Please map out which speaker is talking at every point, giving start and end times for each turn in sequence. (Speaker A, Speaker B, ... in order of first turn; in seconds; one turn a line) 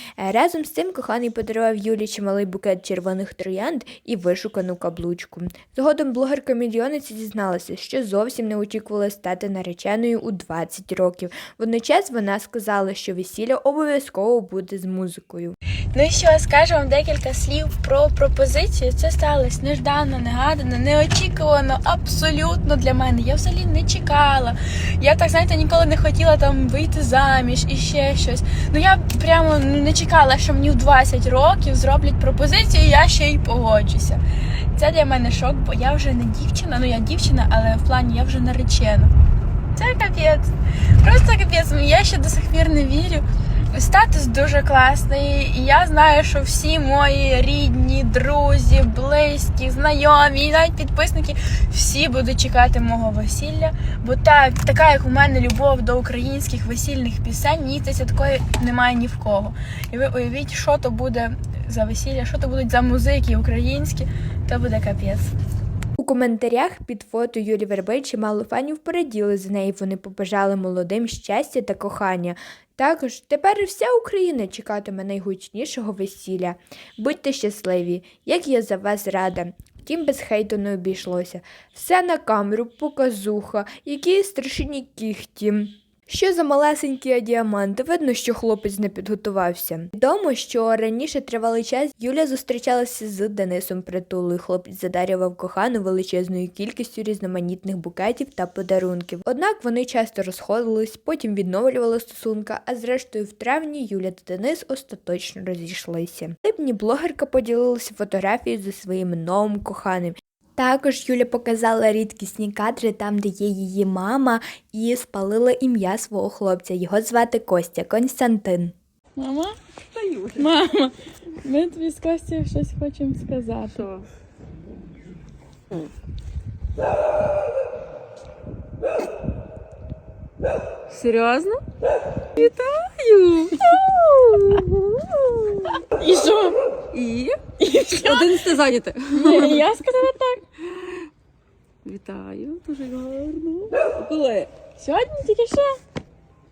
Speaker A: 0.2-15.6
Speaker B: 15.9-39.1
Speaker B: 39.7-65.3
Speaker A: 66.0-118.7
Speaker B: 119.2-119.6
Speaker C: 119.9-120.6
Speaker B: 120.3-123.9
Speaker C: 123.7-124.1
Speaker C: 130.9-131.6
Speaker C: 132.3-135.8
Speaker B: 135.9-136.6
Speaker C: 136.9-139.7
Speaker B: 137.6-138.3
Speaker B: 139.1-140.4
Speaker C: 141.8-144.5
Speaker B: 144.8-145.8